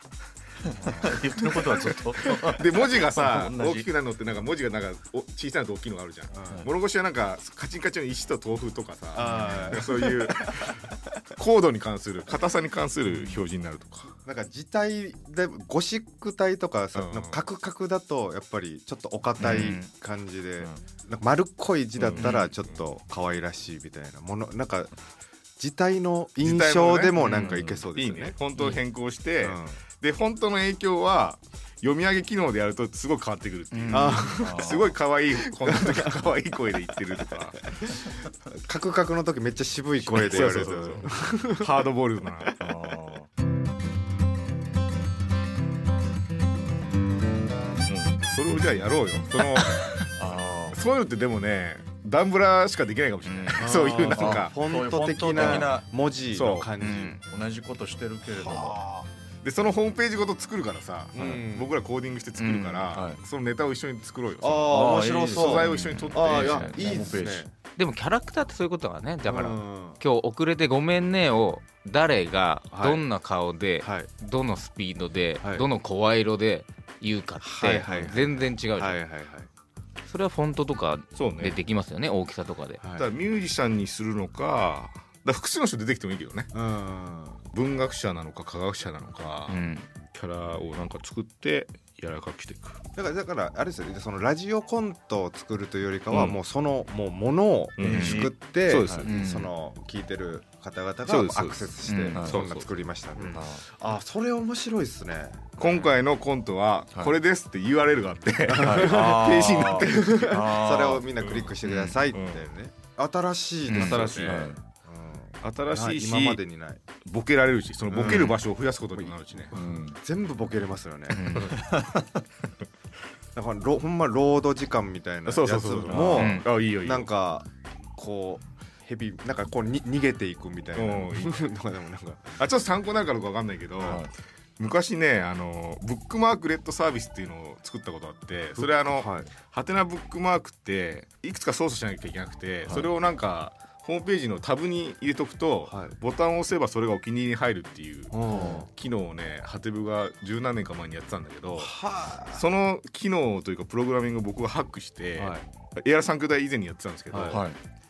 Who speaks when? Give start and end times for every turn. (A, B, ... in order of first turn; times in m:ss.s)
0:00.6-0:03.9 A
0:02.2-0:14.2 B
0:06.3-0:06.7 C
0:09.1-0:10.4 C
0:09.4-0:09.8 A
0:14.2-0:24.9 C
0:17.0-0:17.4 B
0:19.4-0:19.9 D
0:22.0-0:22.8 B
0:22.2-0:22.5 D
0:25.6-0:28.4 C
0:26.4-0:37.7 B
0:29.4-0:29.8 C
0:33.7-0:34.3 D
0:33.9-0:34.8 C
0:34.3-0:35.0 A
0:35.4-0:36.3 C
0:36.9-0:41.9 C
0:40.0-0:42.6 B
0:42.6-0:43.3 A
0:47.9-0:50.0 B
0:50.2-0:50.8 A
0:50.7-0:54.6 B
0:53.3-0:53.7 D
0:53.6-0:57.2 C
0:54.0-0:55.9 A
0:55.4-0:55.7 B
0:56.3-0:56.7 B
0:56.8-0:57.2 D
0:57.2-0:58.8 A
0:58.3-0:59.1 C
0:59.4-1:04.8 B
1:01.1-1:01.7 C
1:01.2-1:01.4 A
1:02.4-1:02.9 D
1:02.9-1:03.2 A
1:04.4-1:07.5 C
1:04.7-1:07.5 A
1:05.3-1:07.0 B
1:05.6-1:06.2 D
1:07.8-1:19.0 D
1:09.3-1:10.0 C
1:12.7-1:13.0 C
1:13.8-1:14.1 C
1:17.4-1:19.5 C
1:20.1-1:22.8 D
1:21.2-1:21.6 B
1:22.8-1:23.1 C
1:23.0-1:26.5 B
1:26.5-1:27.4 C
1:27.5-1:32.8 B
1:29.5-1:29.9 D
1:33.0-1:45.5 C
1:36.1-1:36.4 B
1:37.8-1:39.1 B
1:37.8-1:39.1 A
1:37.9-1:38.3 D
1:39.1-1:39.5 D
1:41.1-1:41.6 B
1:41.8-1:42.2 D
1:42.1-1:42.4 A
1:42.2-1:42.7 B
1:43.2-1:43.4 D
1:43.4-1:43.6 A
1:45.6-1:50.4 B
1:45.6-1:45.9 D
1:48.5-1:56.8 C
1:48.6-1:51.1 A
1:51.2-1:52.5 B
1:51.6-1:52.0 D
1:53.7-1:54.2 D
1:53.8-1:54.4 B
1:54.0-1:54.6 A
1:55.4-1:56.4 B
1:57.0-1:59.5 B
1:57.9-1:58.4 C
1:59.0-2:01.5 C
1:59.5-2:00.0 A
2:01.1-2:01.6 D
2:01.5-2:02.1 A
2:03.3-2:12.4 C
2:05.3-2:07.1 B
2:05.9-2:06.3 A
2:06.1-2:06.5 D
2:10.8-2:11.5 B
2:12.4-2:14.0 B
2:13.8-2:14.1 A
2:14.6-2:31.8 B
2:18.6-2:19.3 C
2:25.7-2:26.0 C
2:28.1-2:28.7 C
2:31.6-2:32.5 C
2:32.3-2:37.5 B
2:35.2-2:35.4 C
2:37.1-2:37.4 C
2:37.3-2:37.6 A